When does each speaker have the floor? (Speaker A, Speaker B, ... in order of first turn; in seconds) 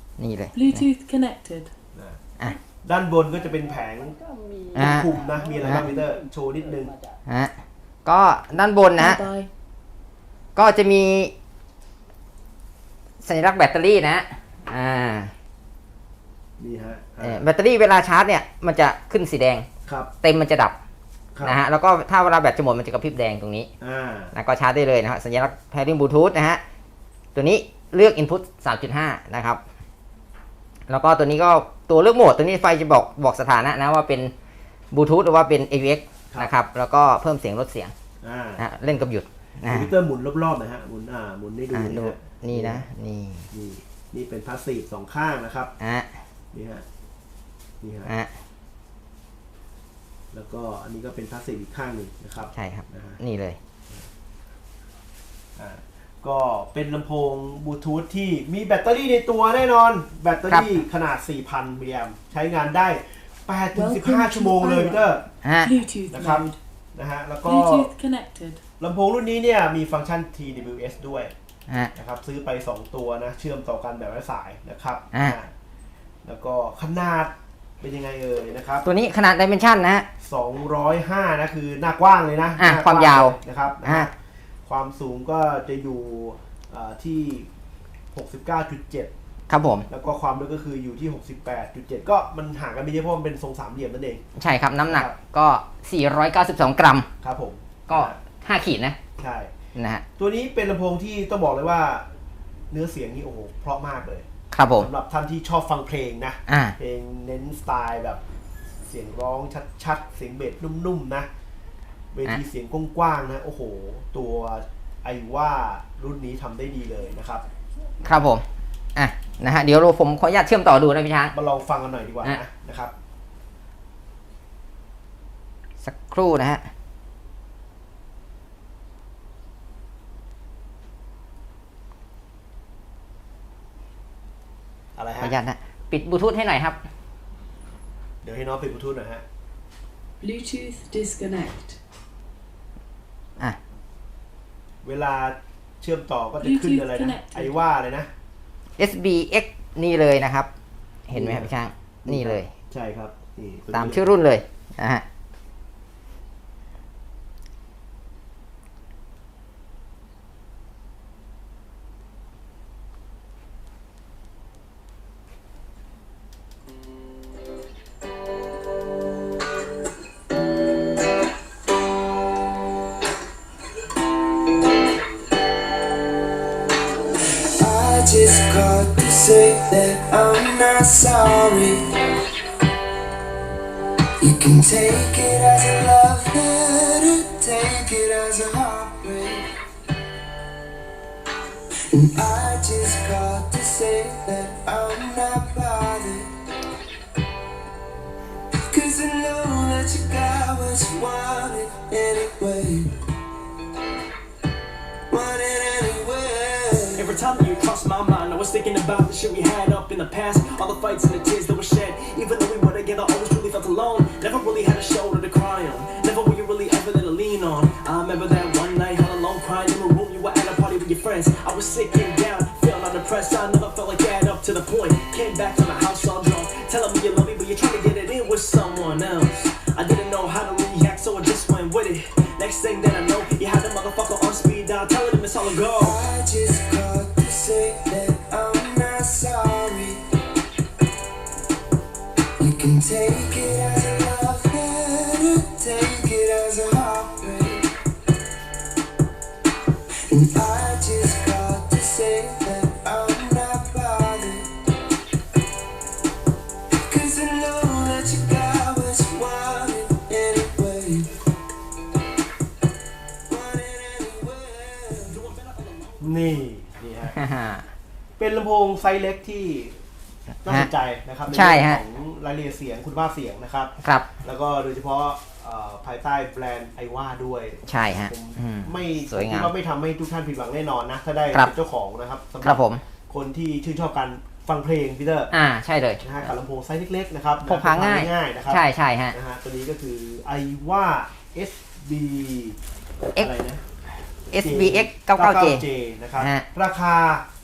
Speaker A: 0.2-0.8, 4.8-5.1, 7.3-7.5, 8.1-9.2, 10.6-11.3, 13.2-15.3, 17.2-19.7, 20.2-20.8, 21.4-23.7, 24.3-26.6, 27.4-29.6, 30.9-34.3, 34.9-37.9, 38.6-39.9, 41.7-43.5, 45.8-46.1, 52.5-53.6, 60.5-60.8, 65.4-65.7, 78.8-80.1, 82.6-84.1, 89.5-89.9, 94.4-97.1, 97.9-99.0, 99.8-100.0, 104.5-104.9, 106.5-106.8, 118.0-118.4, 119.0-121.3, 125.8-126.6, 135.2-136.8, 148.8-150.5, 151.1-152.5, 153.7-155.1, 267.1-267.7, 271.3-271.8, 273.8-274.1, 277.7-279.5, 282.4-282.8, 285.3-286.0, 287.4-289.1, 294.3-295.6, 296.2-296.4
Speaker B: 0.5-1.7, 9.0-9.5, 63.8-65.1, 65.6-66.6, 67.4-68.6, 140.2-141.8, 146.4-147.6
Speaker C: 1.9-2.2, 2.8-4.2, 4.8-6.9, 16.6-17.4, 21.3-21.6, 23.8-24.3, 38.2-38.6, 39.7-42.9, 43.5-45.7, 46.5-46.8, 47.8-48.1, 50.3-53.2, 55.6-65.2, 66.1-67.9, 68.8-71.3, 71.9-75.5, 76.2-78.9, 80.2-84.1, 84.7-87.5, 88.1-89.1, 89.9-94.2, 94.9-95.2, 97.2-98.2, 99.2-99.5, 100.2-102.0, 102.7-108.2, 108.8-111.3, 112.1-117.4, 121.3-122.9, 135.0-135.4, 138.2-139.2, 144.8-148.1, 151.1-151.5, 152.1-154.1, 266.0-267.1, 268.2-269.8, 270.4-285.3, 286.0-292.6, 293.2-293.6, 294.4-297.2
Speaker D: 177.6-182.0, 184.2-189.5, 191.9-196.3, 198.5-202.9, 205.1-207.2, 235.8-240.0, 242.4-247.7, 250.1-254.5, 256.9-261.2, 263.3-265.3
Speaker E: 207.0-236.0, 265.1-266.3